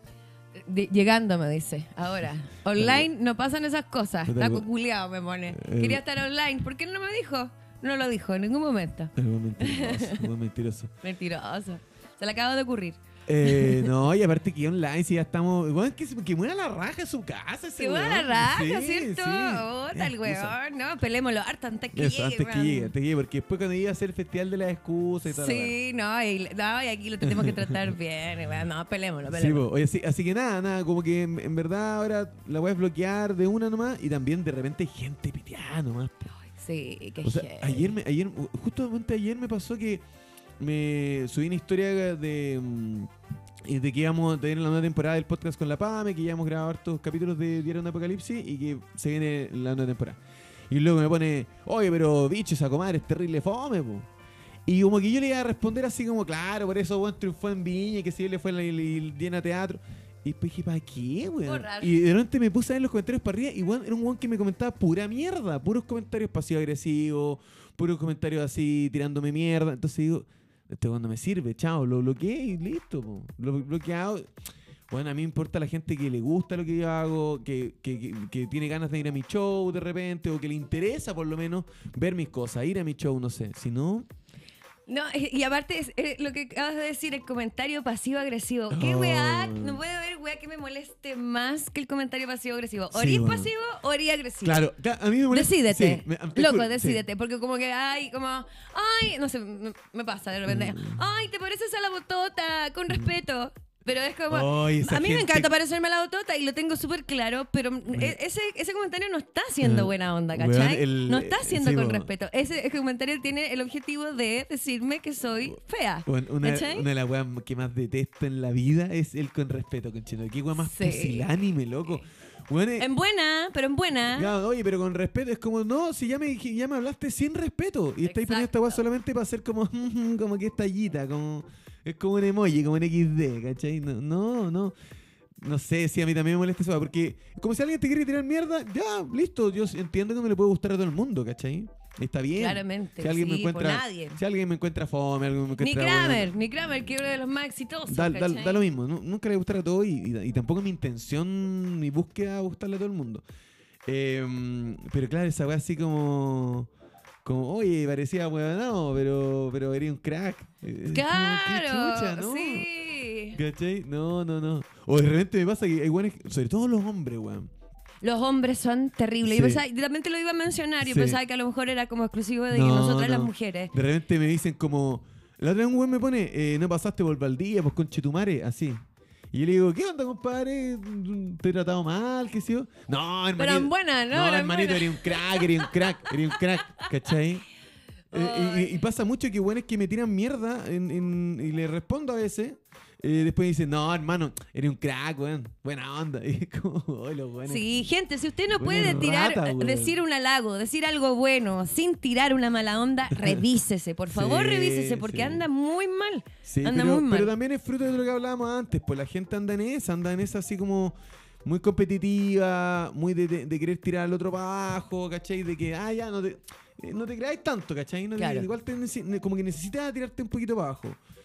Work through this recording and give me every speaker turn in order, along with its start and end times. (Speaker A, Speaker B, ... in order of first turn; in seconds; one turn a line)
Speaker A: 0.6-10.3
Speaker B: 2.7-3.1
Speaker B: 4.3-4.7
Speaker B: 5.5-6.0
Speaker B: 9.2-10.9
Speaker A: 11.0-13.9
Speaker B: 13.3-20.6
Speaker A: 17.8-22.9
Speaker B: 21.9-25.8
Speaker A: 25.3-29.6
Speaker B: 27.2-27.9
Speaker B: 29.3-36.3
Speaker A: 36.4-37.9
Speaker B: 37.2-40.0
Speaker B: 40.6-43.1
Speaker B: 43.6-54.1
Speaker B: 54.6-74.3
Speaker A: 61.5-61.9
Speaker B: 74.9-84.1
Speaker A: 84.9-94.6
Speaker B: 88.7-89.8
Speaker B: 92.9-93.5
Speaker B: 94.4-97.0
Speaker A: 95.3-116.9
Speaker B: 100.5-101.0
Speaker B: 104.3-105.5
Speaker B: 107.9-108.2
Speaker B: 109.6-112.1
Speaker B: 116.1-122.9
Speaker A: 120.6-121.3
Speaker A: 122.8-124.3
Speaker B: 124.1-134.8
Speaker A: 128.0-128.8
Speaker B: 135.4-146.3
Speaker A: 142.4-144.2
Speaker A: 145.6-148.7
Speaker B: 147.9-153.2
Speaker B: 153.9-156.7
Speaker B: 157.2-162.7
Speaker A: 160.9-163.4
Speaker B: 163.3-167.5
Speaker A: 168.0-173.7
Speaker B: 169.2-169.6
Speaker B: 170.8-171.2
Speaker B: 172.5-187.4
Speaker A: 183.4-186.9
Speaker A: 188.1-188.8
Speaker B: 188.1-197.8
Speaker A: 197.5-207.3
Speaker B: 198.6-200.0
Speaker B: 203.1-203.4
Speaker B: 204.1-205.4
Speaker B: 206.4-221.0
Speaker A: 218.2-218.5